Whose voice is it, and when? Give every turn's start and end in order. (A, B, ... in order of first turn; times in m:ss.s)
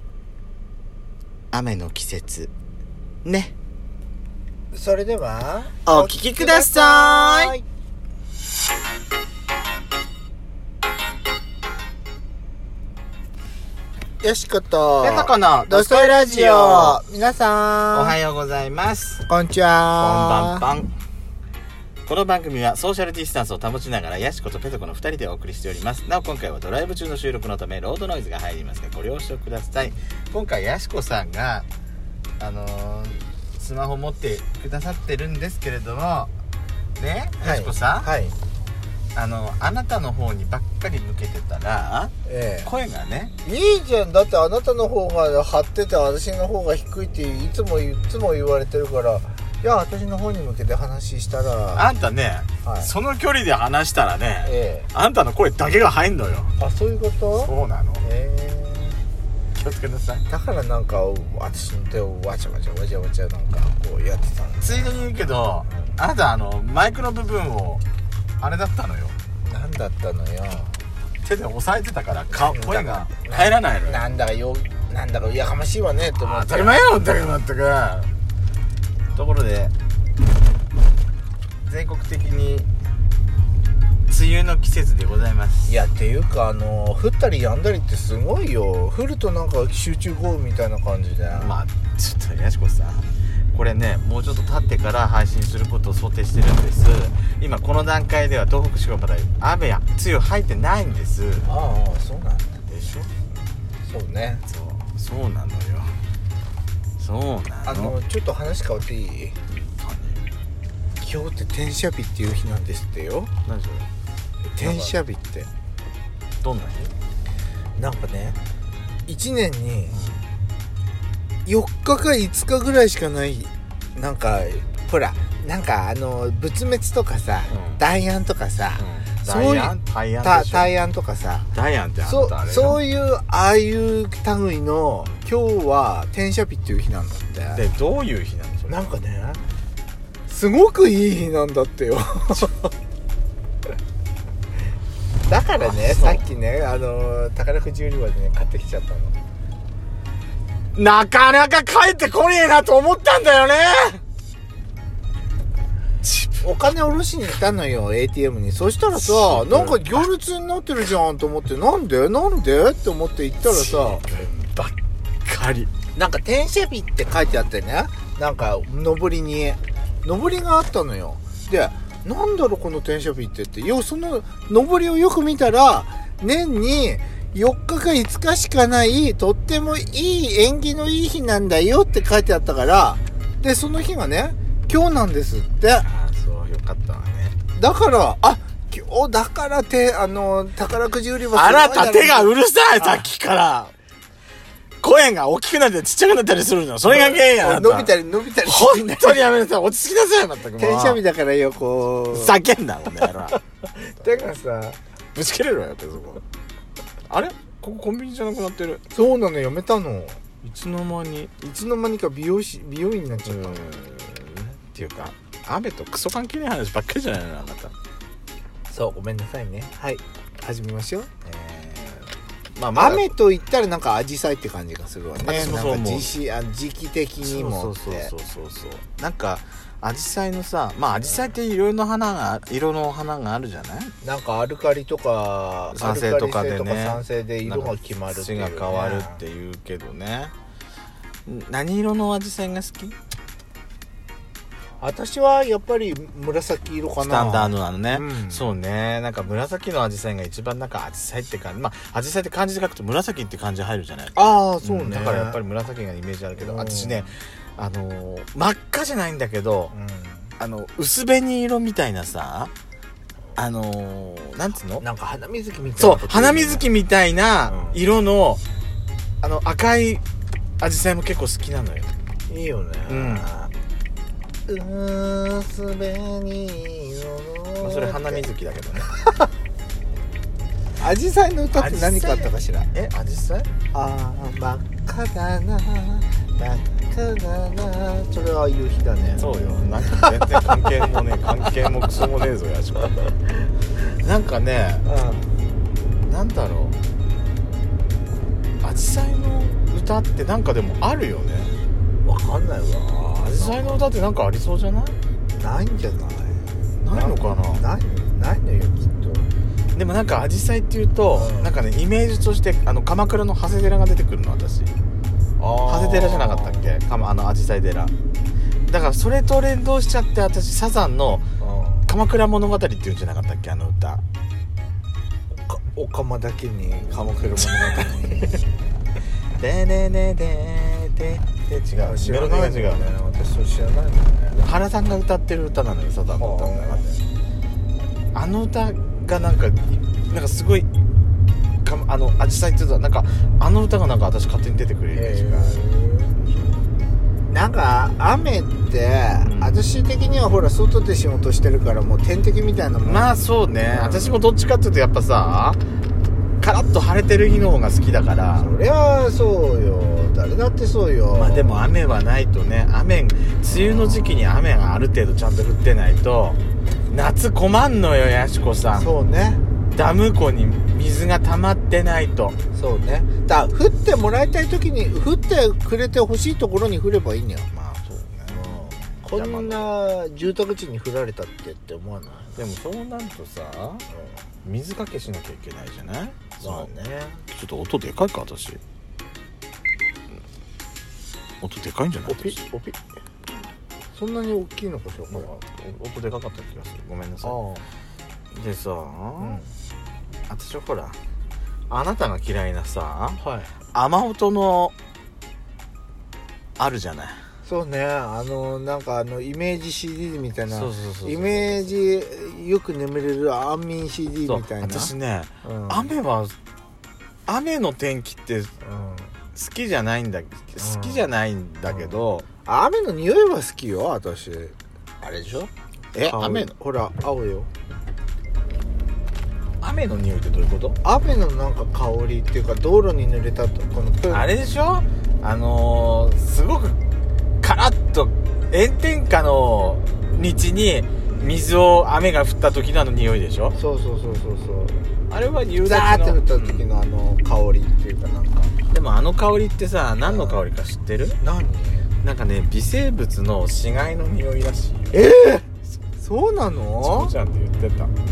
0:01.5-0:02.5 A
0:03.2-0:03.5 A
0:04.7-0:07.6 B
0:05.8-0:07.5 A
0:14.2-0:18.2 B
0:15.0-0:17.0 A
0:17.9-0:19.2 A
0:19.2-0:20.6 B
0:20.0-0:20.9 A
0:22.0-0:31.7 A
0:32.4-0:36.3 A
0:37.0-0:38.1 A
0:37.4-0:38.3 B
0:39.1-0:43.3 A
0:42.2-0:42.7 B
0:43.4-0:51.9 B
0:51.7-0:56.5 A
0:52.6-0:52.9 B
0:54.4-0:54.9 B
0:56.6-0:57.5 B
0:57.3-0:58.0 A
0:58.0-0:59.0 B
0:59.6-1:00.2 A
1:00.3-1:05.0 B
1:04.6-1:07.8 A
1:08.4-1:09.1 A
1:09.4-1:10.8 B
1:11.2-1:14.1 A
1:12.4-1:16.8 B
1:16.1-1:18.1 A
1:19.1-1:19.7 A
1:21.6-1:22.7 A
1:24.1-1:25.7 A
1:25.6-1:31.6 B
1:31.3-1:41.6 A
1:41.4-1:42.6 B
1:42.6-1:43.1 A
1:43.8-1:44.4 B
1:44.4-1:46.0 A
1:47.0-1:47.9 A
1:47.6-1:49.4 B
1:49.5-1:50.2 A
1:51.0-1:53.3 B
1:53.4-1:53.9 A
1:54.5-1:55.5 B
1:54.6-1:54.9 A
1:56.4-1:56.9 A
1:57.8-1:58.4 B
1:59.1-2:00.0 B
1:59.9-2:00.2 A
2:01.4-2:11.5 B
2:07.5-2:07.8 A
2:08.8-2:10.7 A
2:11.5-2:12.8 A
2:12.0-2:17.6 B
2:17.5-2:18.8 A
2:18.7-2:19.4 B
2:20.3-2:22.6 B
2:25.3-2:29.1 B
2:25.6-2:26.2 A
2:30.7-2:34.0 A
2:36.0-2:36.4 A
2:36.4-2:44.0 B
2:38.9-2:40.1 A
2:43.4-2:44.7 A
2:45.2-2:45.7 A
2:45.9-3:05.9 B
3:05.8-3:07.4 A
3:07.6-3:13.0 B
3:11.3-3:13.7 A
3:14.8-3:21.0 A
3:16.8-3:19.2 B
3:20.6-3:22.4 B
3:22.1-3:23.4 A
3:23.8-3:24.8 B
3:25.1-3:26.2 A
3:27.1-3:28.8 A
3:28.9-3:30.2 B
3:30.4-3:31.3 A
3:31.4-3:33.7 B
3:33.2-3:37.7 A
3:38.7-3:41.1 B
3:41.2-3:43.1 A
3:42.7-3:48.1 B
3:45.2-3:46.1 A
3:47.2-3:53.9 A
3:54.0-3:59.2 B
3:55.7-4:00.3 A
4:01.2-4:02.9 A
4:04.8-4:08.5 B
4:07.0-4:19.7 A
4:14.1-4:15.4 B
4:16.4-4:17.1 B
4:19.7-4:20.3 B
4:20.4-4:22.5 A
4:23.4-4:24.8 A
4:24.8-4:26.7 B
4:25.8-4:28.4 A
4:27.5-4:27.8 B
4:29.2-4:30.0 A
4:30.6-4:31.9 A
4:32.3-4:33.5 B
4:32.9-4:33.3 A
4:34.5-4:38.3 B
4:37.6-4:38.9 A
4:38.9-4:39.2 B
4:40.8-4:42.7 B
4:41.5-4:43.5 A
4:43.7-4:50.5 B
4:49.2-4:53.2 A
4:53.8-4:54.8 A
4:54.8-4:55.3 B
4:56.0-4:56.8 A
4:58.6-5:01.5 A
5:02.0-5:03.9 B
5:03.3-5:04.9 A
5:05.4-5:09.3 B
5:06.8-5:07.6 A
5:09.7-5:14.7 A
5:11.1-5:11.5 B
5:15.4-5:16.8 B
5:15.6-5:17.9 A
5:18.7-5:21.3 A
5:21.4-5:21.9 B
5:21.9-5:24.0 A
5:25.4-5:28.2 B
5:29.4-5:33.0 A
5:31.8-5:34.4 B
5:34.3-5:37.0 A
5:36.2-5:37.0 B
5:38.1-5:40.7 A
5:41.6-5:45.6 A
5:44.9-5:46.3 B
5:47.3-5:53.1 B
5:49.2-5:49.6 A
5:52.8-5:55.6 A
5:53.6-5:54.2 B
5:56.4-5:58.5 A
5:58.4-6:01.7 B
6:01.1-6:08.9 A
6:03.5-6:04.2 B
6:08.7-6:09.4 B
6:09.7-6:12.4 A
6:12.5-6:17.5 B
6:17.5-6:19.7 A
6:18.3-6:22.4 B
6:22.4-6:23.8 A
6:24.4-6:26.7 A
6:26.4-6:27.2 B
6:27.3-6:28.6 A
6:31.4-6:32.4 A
6:32.1-6:32.8 B
6:33.9-6:35.3 B
6:35.1-6:37.4 A
6:37.2-6:37.6 B
6:38.3-6:39.4 A
6:39.2-6:39.5 B
6:40.3-6:41.0 A
6:41.7-6:43.2 A
6:43.2-6:43.5 B
6:43.7-6:44.7 A
6:46.6-6:47.2 A
6:47.4-6:55.9 B
6:50.5-6:51.8 A
6:54.2-6:56.3 A
6:57.3-6:58.5 A
6:58.6-6:59.1 B
6:59.3-7:02.2 A
7:00.6-7:01.1 B
7:01.6-7:05.5 B
7:05.9-7:06.5 A
7:06.0-7:07.5 B
7:09.6-7:10.8 A
7:10.8-7:14.3 B
7:14.1-7:16.8 A
7:17.4-7:23.6 A
7:23.5-7:24.8 B
7:25.1-7:26.6 A
7:25.6-7:28.5 B
7:28.7-7:31.2 A
7:30.0-7:30.4 B
7:31.2-7:31.9 B
7:32.0-7:35.0 A
7:34.9-7:35.4 B
7:36.0-7:37.1 B
7:36.8-7:37.9 A